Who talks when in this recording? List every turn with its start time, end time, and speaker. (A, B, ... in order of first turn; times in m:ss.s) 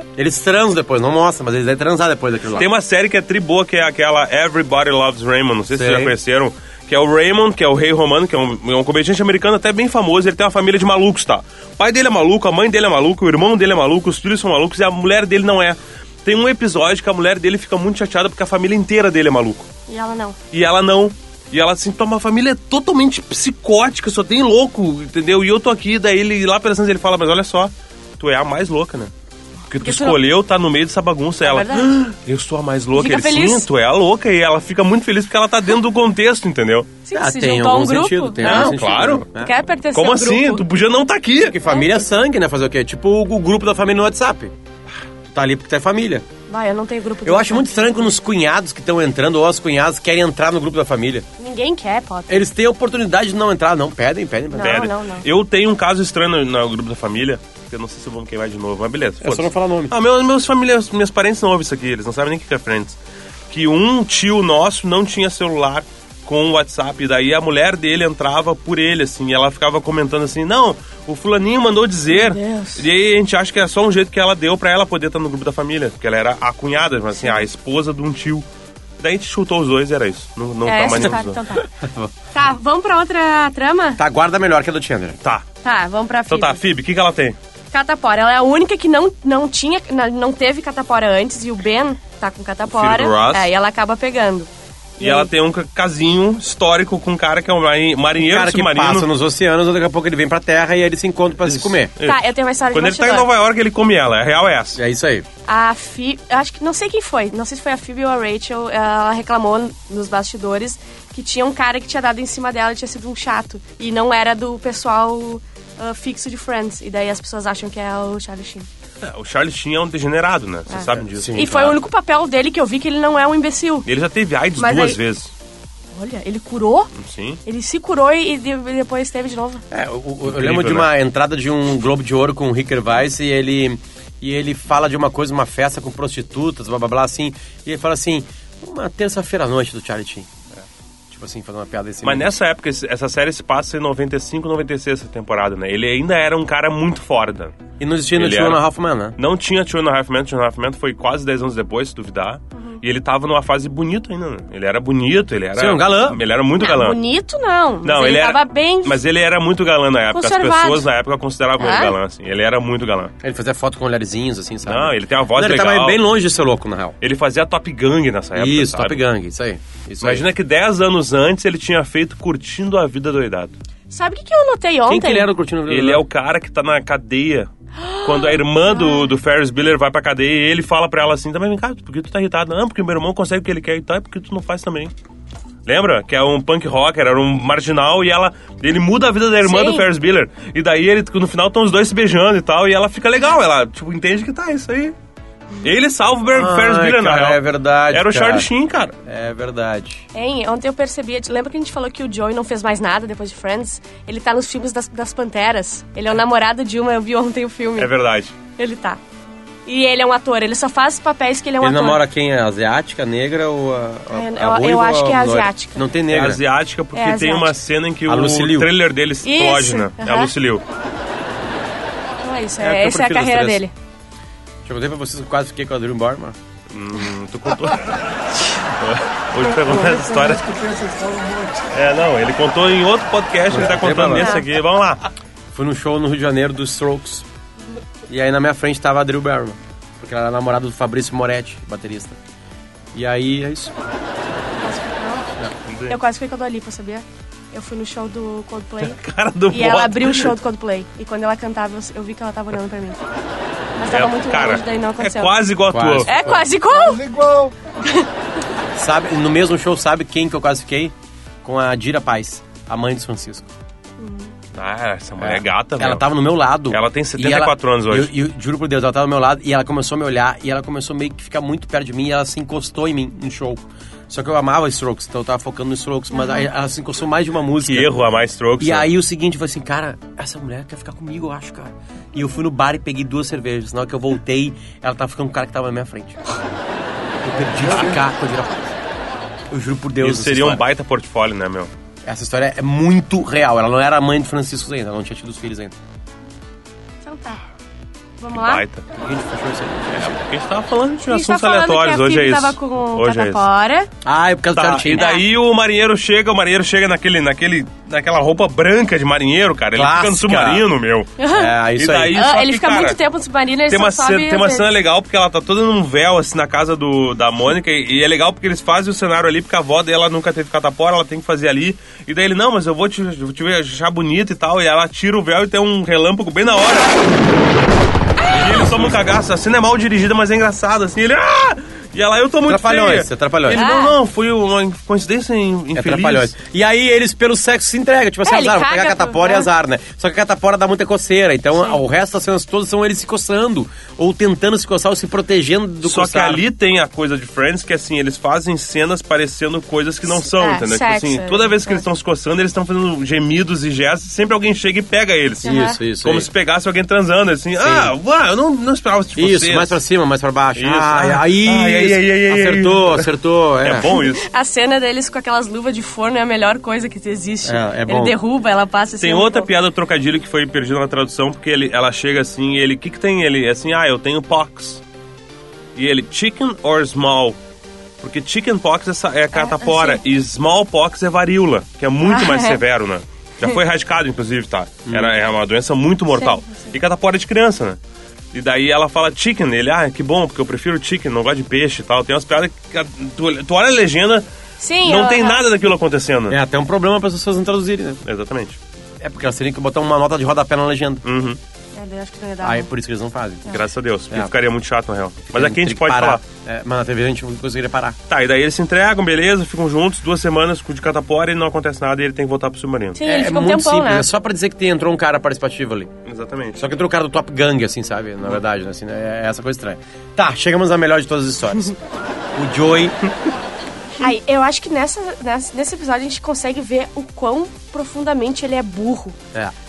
0:00.2-0:02.7 A
0:02.5-0:19.6 B
0:05.7-0:06.1 A
0:19.9-0:20.4 C
0:20.5-0:29.1 B
0:29.7-0:36.9 B
0:29.8-0:30.2 C
0:31.4-0:32.0 C
0:32.9-0:33.7 C
0:37.0-0:40.6 C
0:37.1-0:39.5 A
0:38.4-0:39.2 B
0:39.9-0:41.6 B
0:41.4-0:44.5 A
0:45.2-0:46.2 A
0:46.5-0:48.0 C
0:47.2-0:51.2 A
0:51.4-0:52.4 C
0:52.3-0:54.9 A
0:54.5-0:55.2 C
0:54.6-1:03.0 B
0:59.2-0:59.9 A
1:03.5-1:18.4 B
1:12.1-1:12.8 C
1:17.2-1:17.4 C
1:19.0-1:21.4 B
1:20.6-1:21.7 C
1:21.7-1:22.1 A
1:22.3-1:24.0 C
1:24.0-1:25.2 A
1:25.6-1:26.6 C
1:26.3-1:27.4 B
1:27.7-1:34.5 C
1:32.7-1:33.5 B
1:35.0-1:39.1 B
1:35.0-1:35.3 C
1:38.2-1:41.9 A
1:41.4-1:44.8 B
1:42.0-1:43.3 C
1:44.8-1:45.2 A
1:45.5-1:58.7 C
1:59.0-2:01.7 B
2:00.7-2:03.9 C
2:01.0-2:01.7 A
2:03.8-2:05.3 B
2:04.6-2:05.0 C
2:05.9-2:06.9 C
2:07.0-2:07.4 B
2:07.4-2:09.6 C
2:09.7-2:20.3 A
2:10.2-2:10.9 B
2:21.1-2:22.3 A
2:22.0-2:27.6 B
2:27.8-2:29.2 A
2:28.2-2:28.6 B
2:29.2-2:37.0 B
2:35.5-2:36.2 A
2:36.6-2:39.0 C
2:37.8-2:43.1 B
2:40.1-2:40.9 C
2:41.6-2:41.9 C
2:43.2-2:47.0 A
2:44.6-2:46.0 B
2:47.0-2:49.0 B
2:48.4-2:50.2 A
2:50.0-2:53.5 B
2:53.9-2:55.3 C
2:54.9-2:56.0 A
2:55.7-2:57.5 B
2:57.8-2:59.1 C
2:58.0-3:04.9 B
3:05.6-3:14.9 B
3:09.4-3:09.8 C
3:15.6-3:18.9 B
3:16.3-3:18.5 A
3:19.0-3:20.0 A
3:20.1-3:27.9 C
3:27.8-3:28.3 B
3:28.6-3:29.0 C
3:29.6-3:32.0 C
3:31.6-3:36.4 A
3:34.1-3:35.8 C
3:36.1-3:40.6 B
3:36.9-3:37.6 C
3:38.1-3:38.7 A
3:39.2-3:40.3 C
3:42.2-3:43.7 C
3:42.6-3:43.6 A
3:44.6-3:46.4 A
3:46.7-3:50.9 B
3:51.7-3:55.0 B
3:53.5-3:54.4 A
3:54.2-3:54.4 C
3:55.5-3:57.2 A
3:58.1-4:02.2 A
4:02.9-4:03.8 A
4:04.6-4:05.3 C
4:05.6-4:06.0 B
4:05.9-4:09.0 C
4:08.8-4:10.3 B
4:09.5-4:13.0 C
4:13.8-4:15.4 C
4:13.9-4:16.1 B
4:15.7-4:16.4 A
4:16.0-4:18.1 C
4:18.7-4:20.9 A
4:21.4-4:23.5 A
4:24.0-4:24.3 C
4:24.5-4:26.0 B
4:25.2-4:37.9 A
4:26.7-4:28.1 B
4:36.2-4:36.4 C
4:37.6-4:38.9 B
4:38.6-4:46.2 A
4:47.2-4:48.7 A
4:49.5-4:50.6 A
4:50.0-4:51.7 B
4:52.0-4:55.8 A
4:57.0-4:57.4 C
4:58.2-4:58.6 C
4:58.3-4:58.8 B
4:58.9-5:00.2 A
4:59.9-5:03.4 B
5:01.1-5:03.9 C
5:04.0-5:05.1 A
5:04.5-5:11.2 B
5:04.9-5:05.2 C
5:09.7-5:10.6 A
5:11.2-5:11.6 C
5:11.3-5:12.2 A
5:11.8-5:13.0 B
5:12.1-5:14.6 C
5:13.7-5:27.0 B
5:28.2-5:28.6 C
5:28.3-5:36.3 B
5:32.5-5:33.6 A
5:33.5-5:33.9 C
5:35.7-5:46.4 A
5:38.2-5:39.5 C
5:45.8-5:59.8 B
5:50.1-5:51.8 C
5:55.4-5:55.8 C
5:55.4-5:56.3 A
5:57.6-5:57.9 A
5:59.2-6:03.9 A
6:00.6-6:03.1 B
6:03.6-6:04.2 B
6:03.8-6:09.5 C
6:07.4-6:08.2 A
6:09.0-6:14.8 B
6:15.7-6:17.4 B
6:18.0-6:27.8 B
6:19.3-6:20.0 C
6:22.0-6:22.6 C
6:24.8-6:25.1 A
6:26.1-6:26.7 C
6:28.3-6:34.2 B
6:34.6-6:35.4 C
6:34.8-6:36.4 B
6:36.3-6:38.0 A
6:38.0-6:38.6 B
6:39.0-6:41.0 A
6:41.0-6:41.4 B
6:41.7-6:42.7 C
6:42.4-6:44.3 A
6:43.5-6:46.2 B
6:45.3-6:48.0 A
6:48.1-6:53.0 B
6:53.0-6:54.1 C
6:53.0-6:55.9 A
6:56.0-6:56.6 B
6:56.6-7:01.8 A
7:02.3-7:03.0 A
7:04.0-7:09.2 C